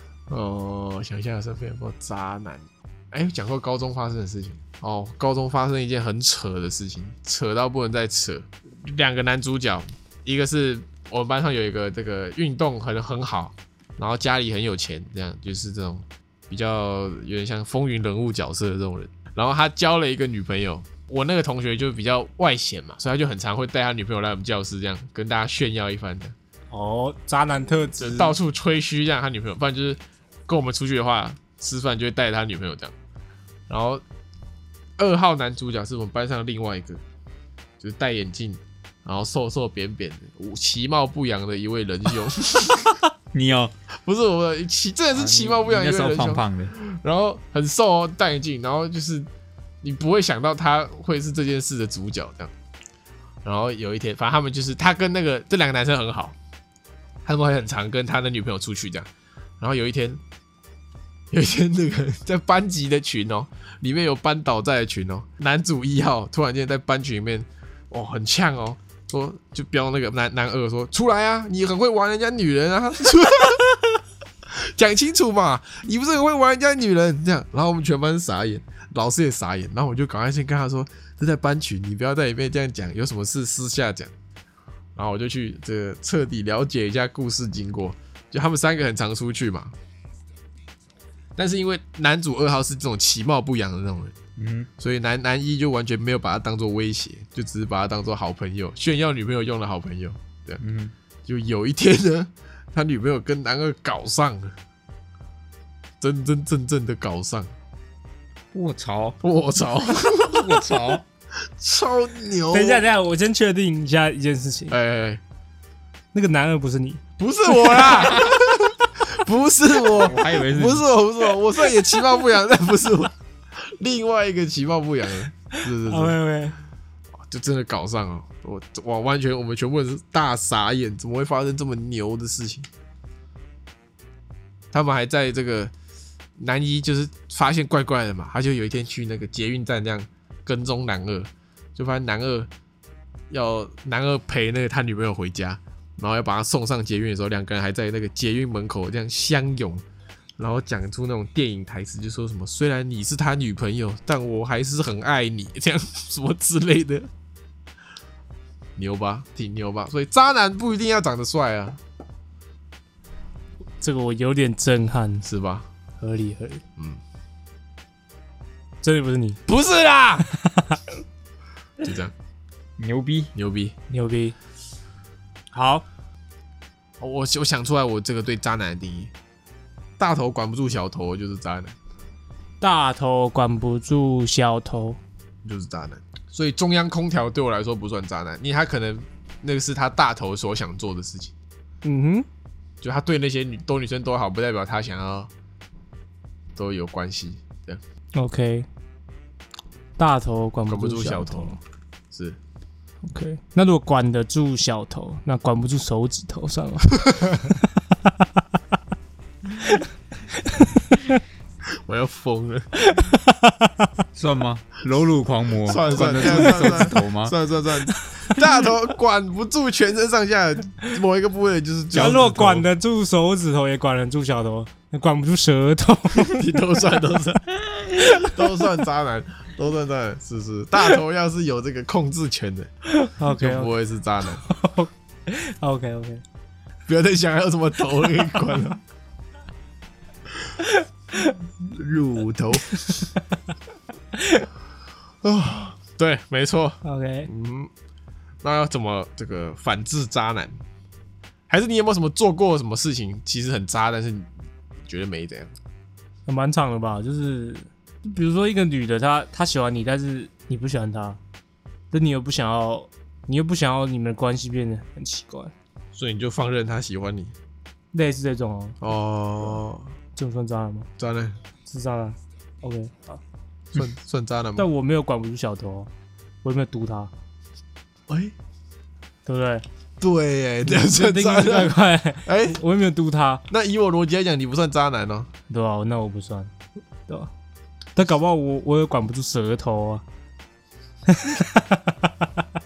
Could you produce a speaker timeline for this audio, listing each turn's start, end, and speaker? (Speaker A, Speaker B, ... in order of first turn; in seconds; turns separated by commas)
Speaker A: 0.3-26.3, Speaker B: 26.7-28.4, Speaker A: 28.0-32.9, Speaker A: 33.7-34.0, Speaker A: 35.0-37.0, Speaker A: 37.8-43.0, Speaker C: 43.3-43.7, Speaker A: 44.0-49.3, Speaker C: 45.1-46.7, Speaker A: 49.8-52.5, Speaker A: 53.4-56.3, Speaker A: 57.2-59.1, Speaker A: 59.6-60.2, Speaker A: 61.3-84.1, Speaker A: 85.0-89.7, Speaker A: 91.4-94.1, Speaker C: 94.4-94.7, Speaker A: 94.8-100.6, Speaker C: 100.6-100.9, Speaker A: 101.2-104.5, Speaker A: 106.0-107.5, Speaker C: 108.5-109.2, Speaker A: 109.2-110.7, Speaker C: 110.1-111.0, Speaker A: 111.6-112.9, Speaker B: 112.5-114.8, Speaker A: 114.7-115.2, Speaker B: 116.1-118.0, Speaker A: 117.2-126.2, Speaker C: 117.8-118.4, Speaker C: 119.8-120.9, Speaker B: 125.5-126.5, Speaker A: 127.2-132.7, Speaker A: 134.7-135.7, Speaker A: 136.4-142.5, Speaker A: 143.3-149.8, Speaker A: 150.4-157.1, Speaker A: 158.8-161.8, Speaker B: 163.8-165.2, Speaker A: 165.2-165.7, Speaker B: 166.0-166.6, Speaker B: 168.8-169.4, Speaker A: 169.5-170.3, Speaker B: 170.3-170.8, Speaker A: 171.8-172.1, Speaker C: 172.8-173.3, Speaker A: 173.3-173.7, Speaker B: 173.9-174.3, Speaker B: 175.5-175.8, Speaker A: 177.0-179.1, Speaker A: 180.0-181.7, Speaker B: 182.6-185.0, Speaker A: 185.4-191.3, Speaker B: 191.8-192.3, Speaker A: 192.8-195.3, Speaker A: 196.5-197.8, Speaker B: 198.1-198.7, Speaker B: 200.0-201.6, Speaker A: 200.7-201.6, Speaker A: 202.1-202.4, Speaker B: 203.1-207.7, Speaker B: 209.6-209.9, Speaker B: 210.4-211.2, Speaker A: 211.8-212.7, Speaker B: 212.8-213.9, Speaker C: 214.2-217.3, Speaker A: 215.7-222.7, Speaker B: 215.9-216.9, Speaker B: 217.9-218.4, Speaker C: 221.9-222.2, Speaker B: 221.9-226.9, Speaker A: 226.1-232.7, Speaker B: 227.9-228.4, Speaker B: 232.8-233.7, Speaker A: 233.3-234.4, Speaker B: 234.4-236.2, Speaker A: 236.9-238.8, Speaker B: 240.6-241.4, Speaker A: 241.7-242.9, Speaker B: 242.7-243.2, Speaker B: 244.1-244.5, Speaker A: 245.2-247.7, Speaker B: 246.8-247.3, Speaker A: 248.4-250.5, Speaker A: 251.5-254.3, Speaker A: 254.8-255.5, Speaker B: 256.3-261.2, Speaker B: 261.9-265.5, Speaker A: 265.9-267.3, Speaker B: 267.9-268.9, Speaker A: 268.8-269.9, Speaker B: 270.1-270.9, Speaker A: 271.0-271.4, Speaker B: 271.7-273.2, Speaker A: 273.7-274.7, Speaker B: 274.6-275.9, Speaker B: 276.4-277.1, Speaker A: 278.1-278.3, Speaker B: 279.2-279.6, Speaker A: 280.0-282.6, Speaker B: 280.6-283.4, Speaker A: 283.5-285.3, Speaker B: 285.5-286.5, Speaker B: 287.9-290.0, Speaker B: 291.1-292.1